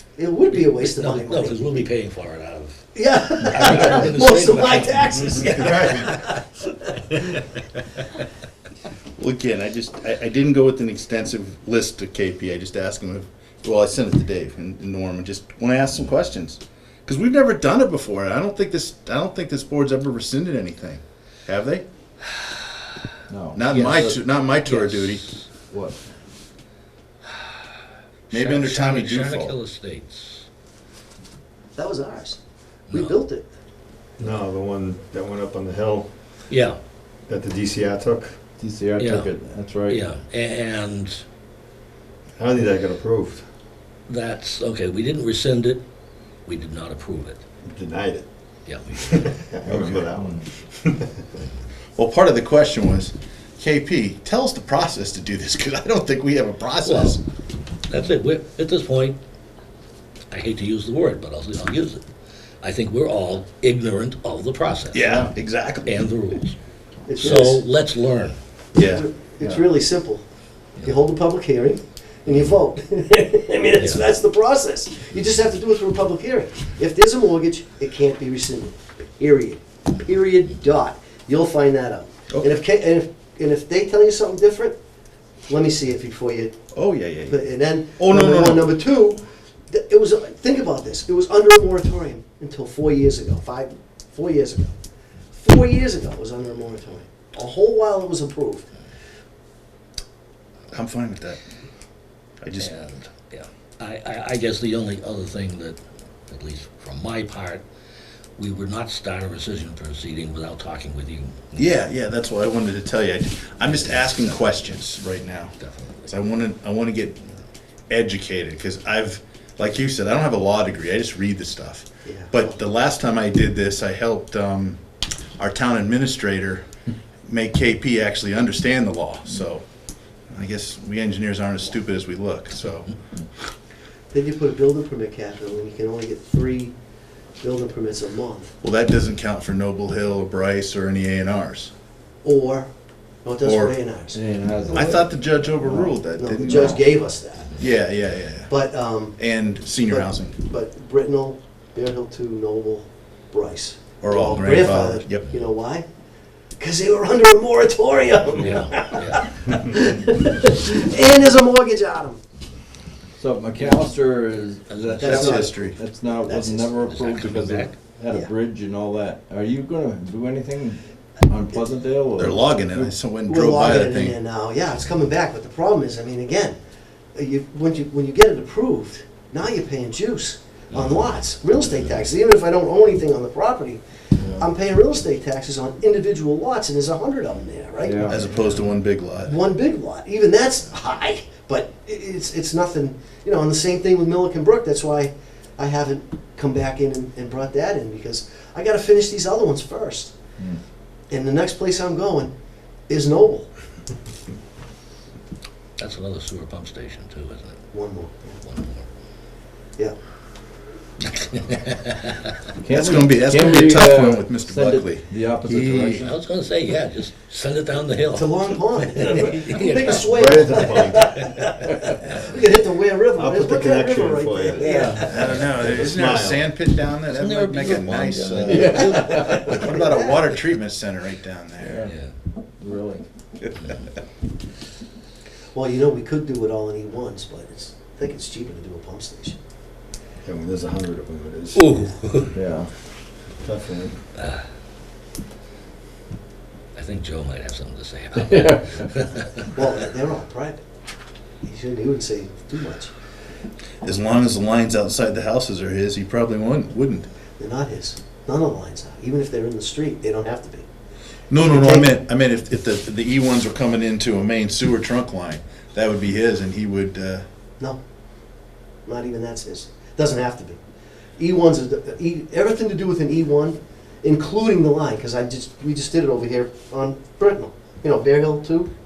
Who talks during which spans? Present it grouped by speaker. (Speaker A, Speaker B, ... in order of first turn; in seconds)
Speaker A: 0.2-1.9, 2.9-6.5, 31.8-32.4, 32.9-33.5, 67.1-67.6, 68.8-70.2, 70.8-84.8, 85.5-86.6, 87.3-94.7, 95.3-98.7, 122.0-122.6, 134.1-136.7, 137.4-138.6, 142.2-142.7, 143.2-144.2, 146.2-147.7, 148.5-149.2, 149.8-155.9, 156.6-162.2, 165.0-165.6, 166.3-166.7, 173.3-176.6, 177.2-188.2, 189.3-200.1, 201.1-202.3, 202.9-203.5, 207.7-208.4, 218.1-225.5, 228.6-230.2, 235.5-239.4, 249.5-250.6, 251.4-252.9, 257.4-260.7, 261.4-261.9, 268.9-270.6, 271.2-278.7
Speaker B: 0.5-6.4, 7.1-7.5, 24.7-25.5, 28.3-30.5, 36.5-36.8, 39.0-39.3, 39.9-41.2, 44.1-45.8, 46.5-47.4, 48.7-49.4, 56.8-57.2, 57.9-59.2, 60.3-62.0, 62.6-65.2, 65.9-66.6, 67.2-68.4, 102.6-107.6, 108.4-111.7, 115.6-116.1, 158.4-159.3, 164.8-165.2, 166.8-167.8, 180.7-181.1, 205.8-207.7, 208.4-208.8, 211.0-212.2, 216.0-220.1, 224.6-225.0, 227.1-229.6, 231.8-232.1, 233.6-233.9, 241.6-242.3, 244.2-244.4, 246.8-249.2
Speaker C: 5.6-6.1, 34.2-36.1, 37.3-38.4, 42.4-43.4, 47.6-48.3, 49.1-51.3, 220.1-221.3, 223.2-224.9, 225.5-226.5, 240.2-241.7, 243.4-244.0
Speaker D: 9.2-21.9, 23.5-25.3, 28.3-29.6, 52.0-57.2, 64.9-66.0, 68.8-69.6, 86.7-87.4, 88.0-88.8, 100.7-101.4, 102.4-102.7, 111.6-115.6, 116.1-117.3, 117.9-124.8, 125.4-126.6, 127.3-129.6, 130.3-132.9, 138.6-141.7, 143.4-143.8, 144.7-146.9, 147.6-148.5, 149.2-150.4, 154.0-155.3, 165.0-165.8, 172.2-174.2, 188.1-189.4, 212.7-216.1, 225.0-231.8, 253.8-257.1, 261.3-267.2
Speaker E: 23.3-24.2, 25.6-26.0, 38.6-40.0, 49.7-50.5, 144.1-146.0, 163.2-172.9, 187.8-188.2, 212.6-216.1, 224.7-225.2, 228.4-229.5, 231.6-231.9, 232.6-233.1, 242.3-242.7, 248.2-248.8